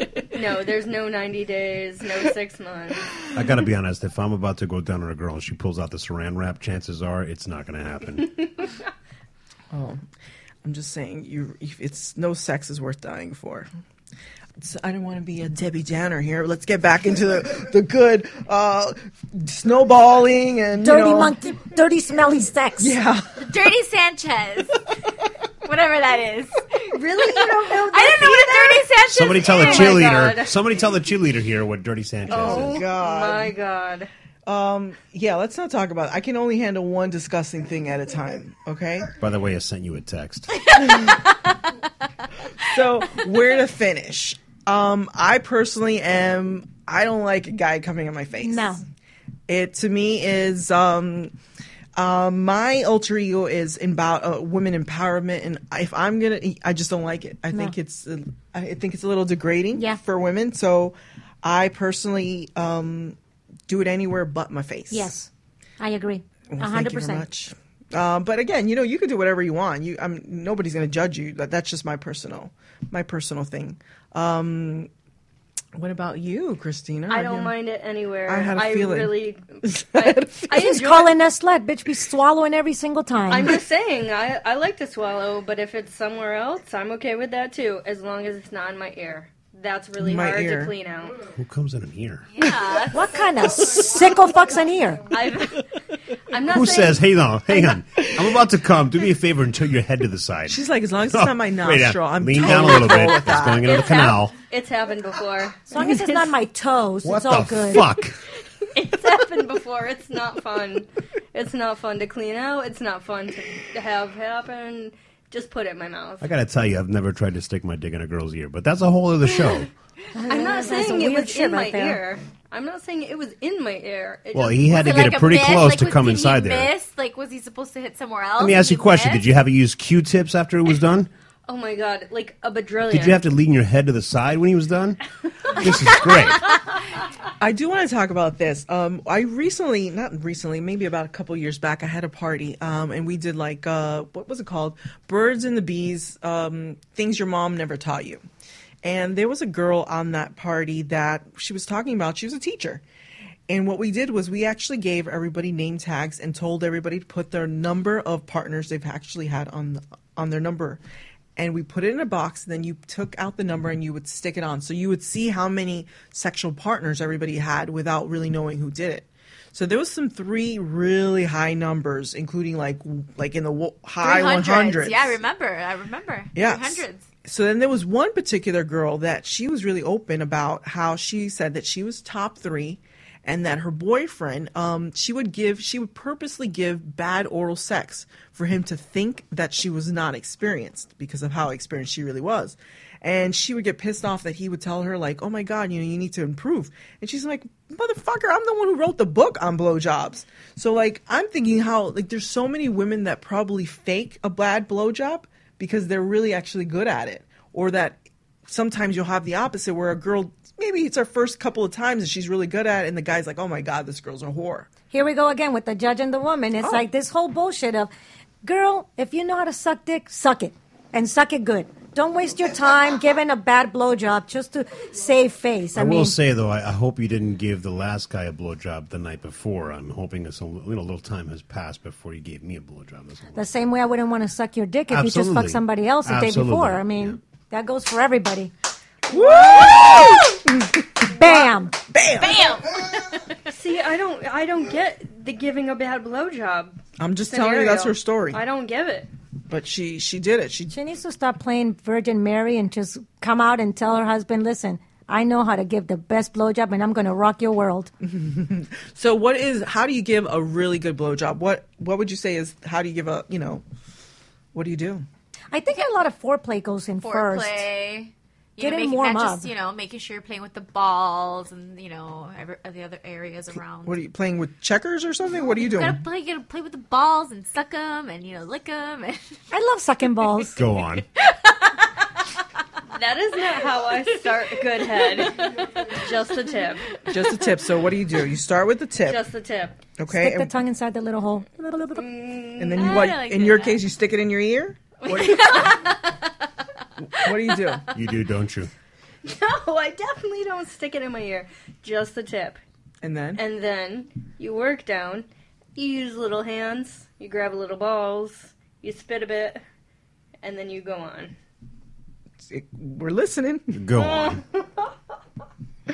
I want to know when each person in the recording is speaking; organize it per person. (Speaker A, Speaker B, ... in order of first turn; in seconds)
Speaker A: 0.3-3.0, 26.9-30.5, 32.3-34.1, 77.1-81.1, 83.3-91.2, 95.1-95.6, 96.3-97.0, 102.5-106.3, 108.7-116.3, 120.3-124.8, 131.5-133.2, 239.1-240.1, 243.5-249.1, 282.9-287.0, 289.0-289.8, 291.9-293.1, 295.0-295.6, 299.2-302.6, 303.4-309.6, 310.4-311.3, 313.9-314.6
Speaker B: 3.3-8.4, 29.1-32.8, 39.2-40.5, 91.3-92.2, 96.5-104.3, 107.0-108.2, 116.2-119.7, 124.3-126.7, 128.4-131.1, 132.9-135.0, 135.5-136.5, 225.7-233.5, 234.9-237.2, 280.6-281.1, 297.9-298.7, 313.7-314.4
Speaker C: 9.7-10.0, 10.6-13.7, 14.6-21.3, 22.8-23.3, 32.3-33.5, 34.5-39.1, 42.6-48.8, 49.5-51.3, 52.0-63.2, 63.7-65.1, 66.5-74.9, 75.8-77.5, 78.3-80.5, 90.0-90.7, 100.5-103.7, 137.4-148.2, 148.8-152.8, 153.5-160.8, 161.3-175.2, 176.3-214.7, 239.1-242.5, 247.0-248.4, 249.5-250.7, 258.0-263.6, 264.5-265.0, 273.9-276.0, 287.1-289.2, 290.0-290.5, 292.6-295.7, 297.1-297.8, 303.0-303.4, 312.5-313.8
Speaker D: 20.8-23.0, 48.4-48.8, 59.7-60.0, 64.9-65.3, 65.8-67.3, 80.5-83.5, 92.9-95.1, 105.7-107.8, 120.1-122.0, 214.9-217.9, 218.4-226.2, 233.3-238.5, 241.1-241.8, 250.7-257.9, 265.5-267.7, 268.6-269.5, 279.5-280.6, 290.1-292.0
Speaker E: 23.4-24.8, 25.6-30.0, 40.7-41.2, 92.3-93.0, 124.7-129.2, 174.0-177.1, 242.2-243.2, 267.0-274.0, 275.6-279.3, 281.0-282.2, 285.0-285.3, 292.7-293.9, 295.1-296.3, 297.2-297.8